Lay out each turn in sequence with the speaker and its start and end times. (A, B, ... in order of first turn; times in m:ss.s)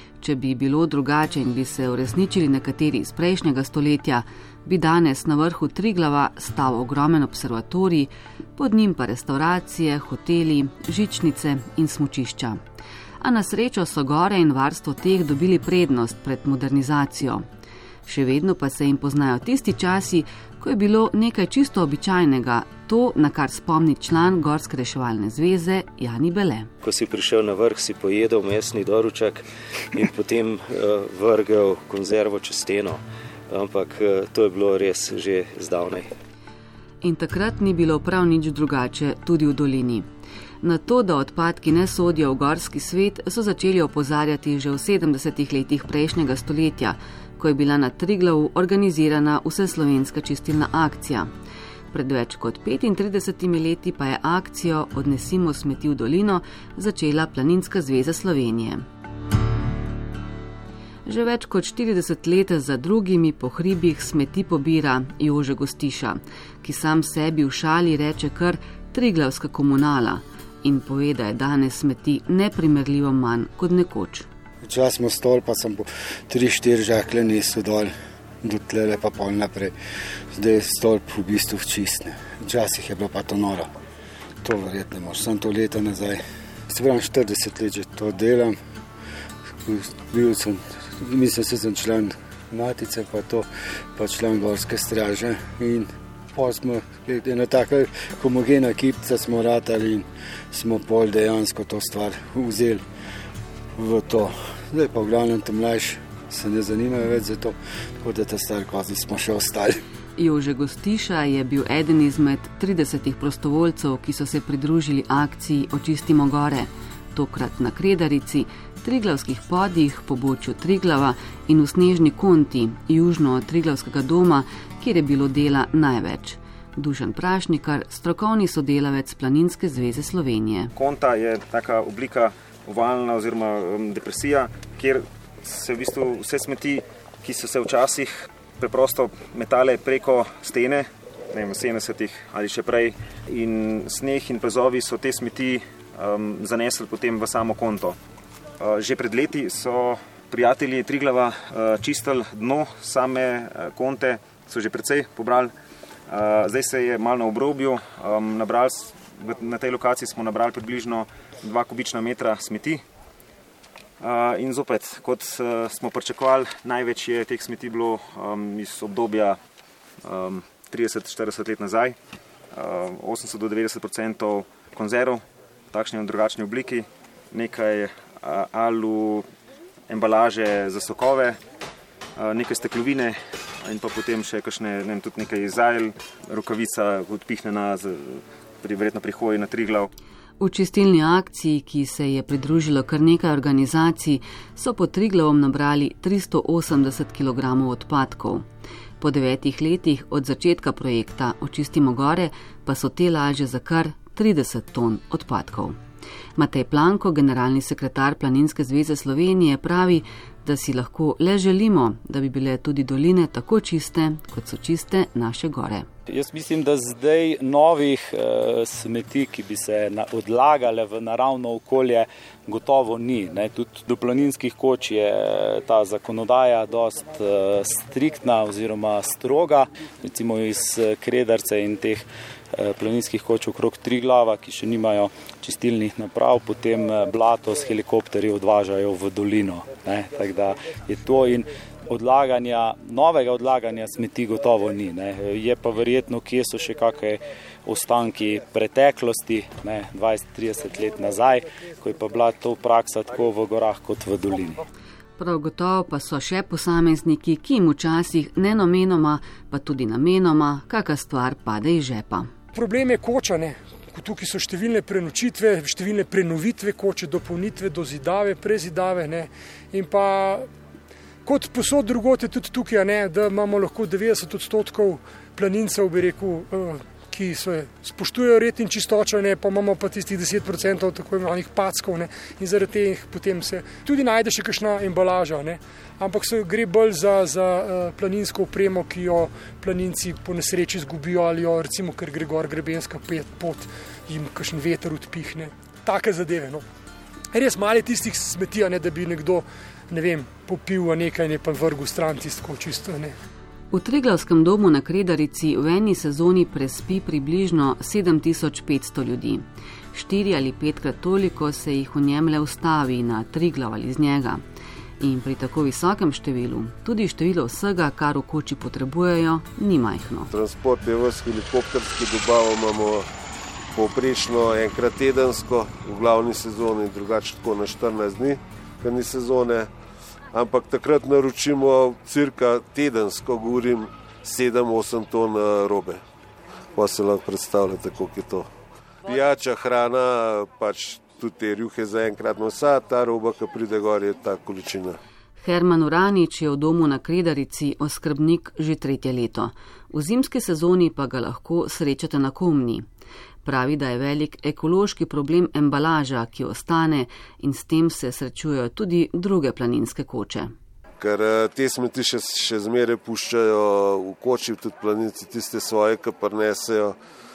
0:00.2-0:12.6 A
0:13.2-0:17.4 A
0:18.0-0:26.7 A
0:26.8-0:29.4 B
0:29.9-0:33.0 B
0:33.5-0:36.1 B
0:37.0-0:40.0 A
0:40.6-0:51.3 A
0:51.9-0:58.8 A
1:01.0-1:14.3 A
1:14.6-1:19.7 C
1:20.3-1:23.7 C
1:24.4-1:28.6 C
1:29.6-1:42.8 C
1:43.8-1:49.8 C
1:50.2-2:10.7 A
2:10.8-2:28.0 D
2:28.6-2:35.5 D
2:36.1-2:42.8 D
2:44.0-2:49.4 D
2:50.0-2:52.0 D
2:52.5-2:59.2 D
2:59.9-3:01.4 D
3:02.2-3:09.9 D
3:10.4-3:18.4 A
3:19.0-3:25.8 A
3:26.4-3:35.9 A
3:36.1-4:14.6 E
4:15.2-4:22.3 A
4:22.5-4:30.5 F
4:31.2-4:56.6 F
4:57.3-5:03.2 F
5:03.7-5:14.4 A
5:15.0-5:20.3 A
5:20.3-5:23.1 G
5:23.7-5:29.7 G
5:30.3-5:36.0 G
5:36.7-5:38.5 G
5:39.0-5:45.0 G
5:45.4-5:52.8 A
5:53.4-6:00.5 A
6:01.0-6:06.9 G